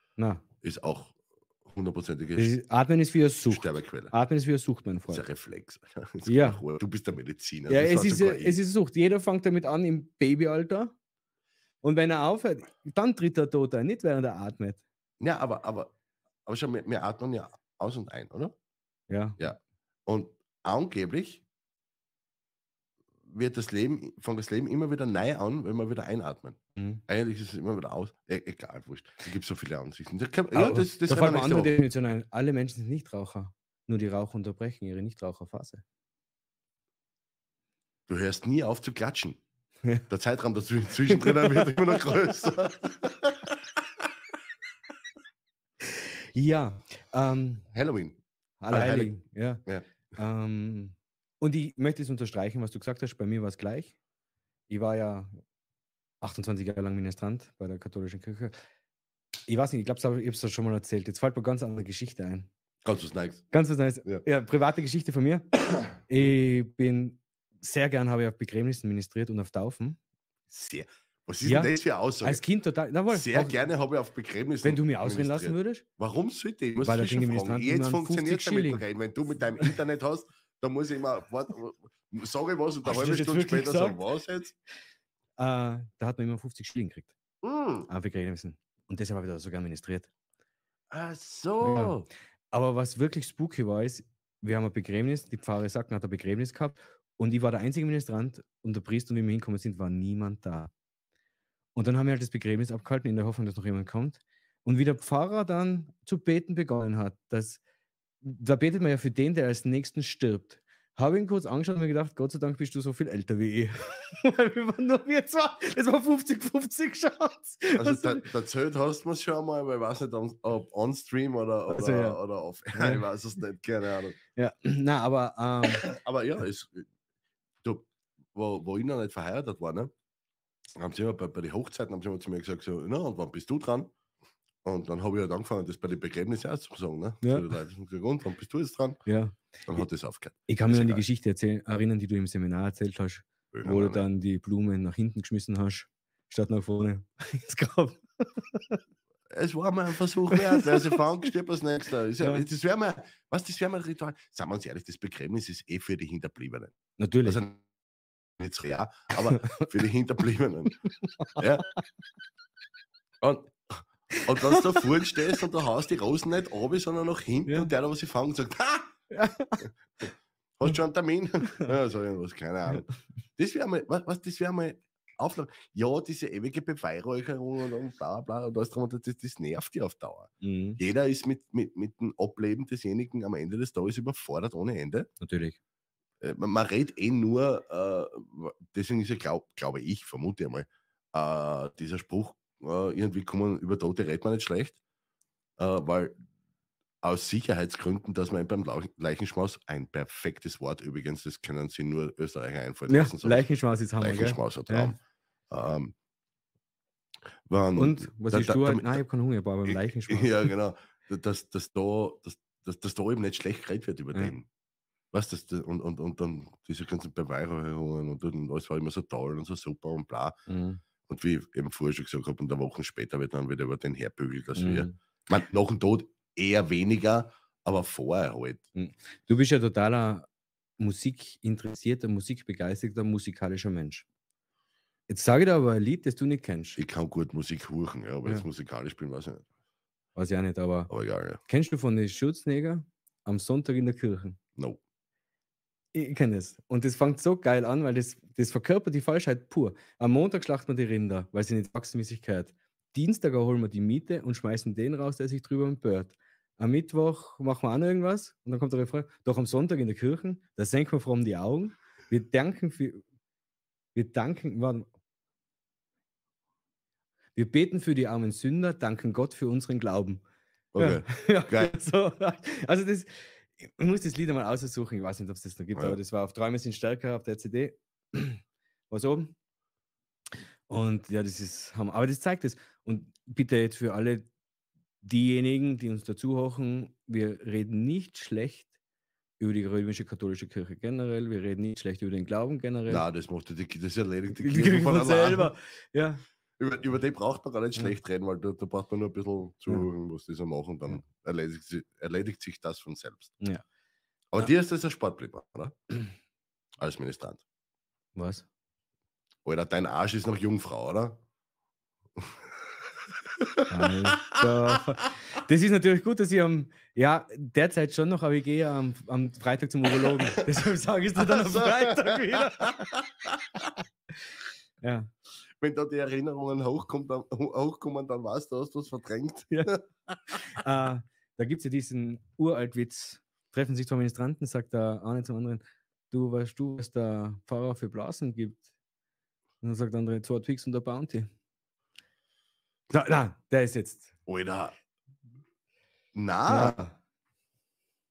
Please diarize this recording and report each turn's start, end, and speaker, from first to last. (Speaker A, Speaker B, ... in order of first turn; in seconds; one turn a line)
Speaker A: 0.2-0.5
Speaker B: 0.6-2.5
Speaker A: 2.4-5.2
Speaker B: 3.5-4.1
Speaker B: 5.1-8.6
Speaker A: 6.3-6.6
Speaker A: 7.7-10.9
Speaker A: 11.8-14.8
Speaker B: 15.2-15.9
Speaker B: 16.5-18.6
Speaker A: 19.1-19.4
Speaker B: 19.4-21.4
Speaker B: 23.3-31.8
Speaker A: 26.8-27.0
Speaker A: 30.5-35.8
Speaker B: 38.1-39.4
Speaker B: 40.1-43.6
Speaker A: 41.1-42.2
Speaker A: 45.8-47.7
Speaker B: 47.7-48.2
Speaker A: 48.6-49.6
Speaker B: 48.7-49.1
Speaker A: 50.2-54.0
Speaker A: 54.7-55.3
Speaker A: 56.2-58.5
Speaker A: 59.5-62.5
Speaker B: 62.9-63.5
Speaker A: 63.5-70.0
Speaker B: 70.5-72.4
Speaker A: 71.4-73.6
Speaker B: 73.1-84.5
Speaker A: 74.6-75.8
Speaker A: 76.8-78.8
Speaker A: 82.8-84.0
Speaker A: 85.4-87.2
Speaker B: 87.4-87.9
Speaker A: 87.9-90.1
Speaker B: 90.9-92.1
Speaker A: 91.6-92.0
Speaker A: 92.5-100.7
Speaker A: 101.8-107.6
Speaker A: 108.2-118.3
Speaker B: 117.7-124.2
Speaker A: 121.7-122.2
Speaker A: 122.8-123.0
Speaker A: 124.4-125.9
Speaker B: 125.7-126.9
Speaker B: 127.6-129.9
Speaker B: 130.8-133.9
Speaker B: 134.6-139.0
Speaker A: 139.1-139.8
Speaker B: 139.7-141.0
Speaker A: 140.5-148.8
Speaker B: 143.5-144.1
Speaker B: 149.3-157.6
Speaker A: 150.3-151.0
Speaker A: 157.0-157.4
Speaker B: 158.4-160.8
Speaker A: 159.3-159.6
Speaker A: 161.2-161.6
Speaker B: 161.4-161.7
Speaker B: 163.2-168.9
Speaker A: 164.3-164.8
Speaker A: 169.1-169.6
Speaker B: 170.6-185.1
Speaker A: 180.4-180.8
Speaker A: 185.2-185.6
Speaker B: 186.2-194.8
Speaker B: 195.6-196.2
Speaker B: 197.0-203.5
Speaker A: 202.9-204.9
Speaker B: 204.0-205.0
Speaker B: 205.5-205.9
Speaker B: 207.5-209.0
Speaker A: 207.8-210.5
Speaker B: 209.7-214.5
Speaker B: 215.1-220.4
Speaker A: 220.5-220.8
Speaker B: 221.1-228.6
Speaker A: 224.6-224.9
Speaker A: 228.8-230.3
Speaker A: 230.8-234.1
Speaker A: 235.1-236.8
Speaker B: 236.8-239.5
Speaker A: 240.2-240.9
Speaker B: 240.9-241.4
Speaker A: 241.5-244.4
Speaker A: 245.9-263.0
Speaker A: 263.9-264.9
Speaker A: 267.4-270.2
Speaker B: 270.7-271.7
Speaker A: 270.8-279.3
Speaker A: 280.7-284.3
Speaker A: 285.0-288.7
Speaker A: 289.4-293.1
Speaker B: 292.9-295.5
Speaker A: 294.3-296.2
Speaker B: 296.6-303.4
Speaker B: 304.3-305.8
Speaker B: 306.8-307.4
Speaker A: 308.2-308.5
Speaker B: 309.4-311.2
Speaker B: 313.5-314.4
Speaker A: 313.7-322.9
Speaker B: 321.2-323.7
Speaker A: 324.8-325.1
Speaker B: 325.6-330.4
Speaker A: 330.5-338.6
Speaker A: 339.6-341.3
Speaker A: 342.9-344.1
Speaker B: 344.3-344.8
Speaker B: 346.1-346.8
Speaker A: 346.5-346.9